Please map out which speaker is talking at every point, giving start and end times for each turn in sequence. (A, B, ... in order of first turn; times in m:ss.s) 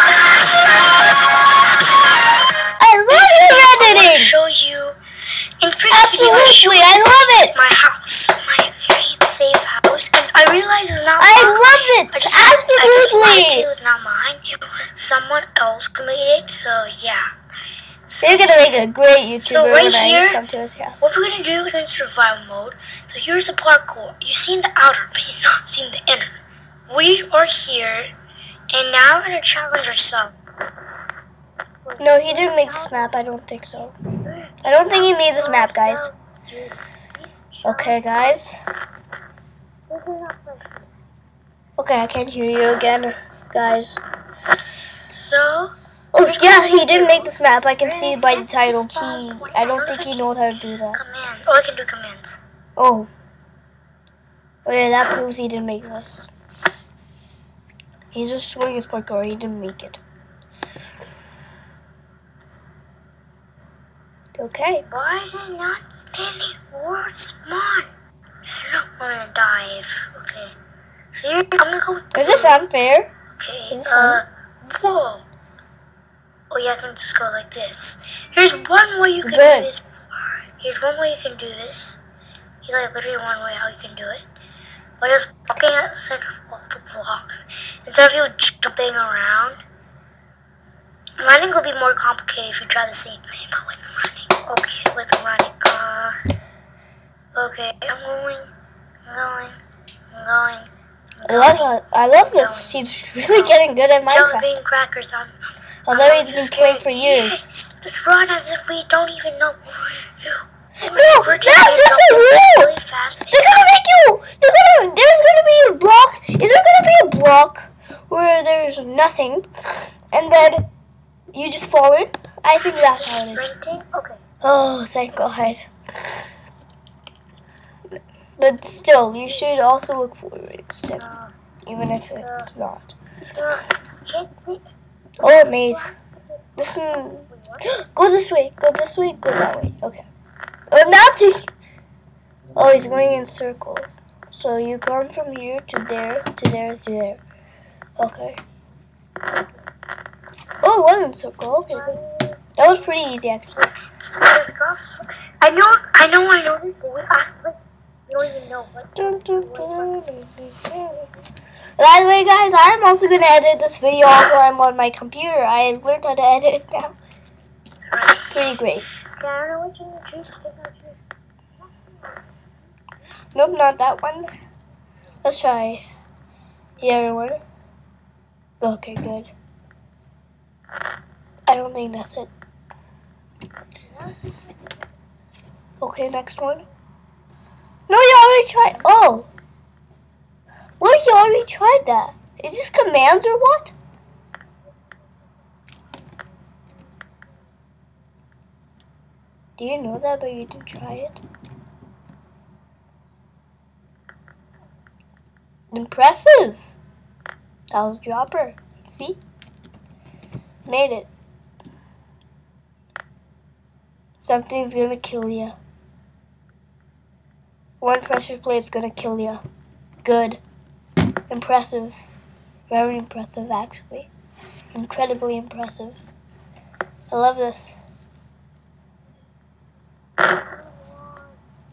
0:02.8-0:04.3 A
0:03.1-0:05.0 B
0:05.6-0:17.3 B
0:05.9-0:07.5 A
0:11.2-0:13.7 A
0:18.1-0:18.7 B
0:18.2-0:21.0 A
0:19.4-0:20.4 B
0:21.0-0:26.3 B
0:26.9-0:28.1 B
0:28.7-0:30.3 B
0:31.8-0:33.2 B
0:32.0-0:34.0 A
0:34.1-0:38.4 B
0:34.6-0:36.1 A
0:37.6-0:38.6 A
0:39.9-0:40.9 B
0:41.8-0:44.0 A
0:45.1-0:50.4 B
0:46.1-0:51.0 A
0:50.9-0:52.4 B
0:52.8-0:53.1 A
0:54.7-0:56.2 A
0:58.1-1:00.0 A
1:04.4-1:04.8 A
1:04.8-1:07.9 B
1:08.5-1:10.6 B
1:11.1-1:12.6 B
1:12.1-1:13.1 A
1:13.3-1:15.2 B
1:13.7-1:14.2 A
1:16.5-1:22.0 B
1:19.2-1:19.7 A
1:22.6-1:24.2 B
1:25.0-1:29.6 B
1:31.2-1:36.2 B
1:37.3-1:38.5 B
1:39.0-1:53.6 B
1:41.2-1:44.5 A
1:45.9-1:47.4 A
1:50.8-1:52.7 A
1:53.3-1:59.5 A
2:00.1-2:00.7 A
2:01.3-2:03.5 A
2:02.6-2:04.2 B
2:04.4-2:05.7 A
2:08.4-2:11.1 A
2:11.0-2:11.3 B
2:11.7-2:13.0 A
2:12.2-2:12.5 B
2:13.3-2:14.6 B
2:15.2-2:15.9 A
2:15.2-2:17.7 B
2:16.6-2:20.1 A
2:20.7-2:21.5 A
2:22.6-2:27.2 A
2:28.0-2:28.4 A
2:30.6-2:32.0 A
2:31.7-2:32.4 B
2:32.6-2:33.7 A
2:33.6-2:40.0 B
2:39.0-2:41.1 A
2:41.8-2:47.0 A
2:47.9-2:48.5 B
2:48.3-2:48.8 A
2:49.0-2:51.0 B
2:51.6-2:52.5 B
2:53.3-2:54.3 A
2:55.2-2:55.8 A
2:56.8-2:57.4 A
2:58.6-2:59.3 A
3:01.5-3:02.3 A
3:03.9-3:04.3 B
3:05.8-3:06.6 A
3:07.9-3:09.3 A
3:10.8-3:13.7 A
3:19.6-3:21.2 A
3:25.7-3:26.7 A
3:27.7-3:29.2 A
3:30.7-3:31.1 A
3:34.2-3:35.6 A
3:37.8-3:39.4 A
3:40.0-3:40.4 A
3:41.3-3:42.0 A
3:42.7-3:44.1 A
3:44.7-3:46.0 A
3:47.1-3:47.8 A
3:50.2-3:51.4 B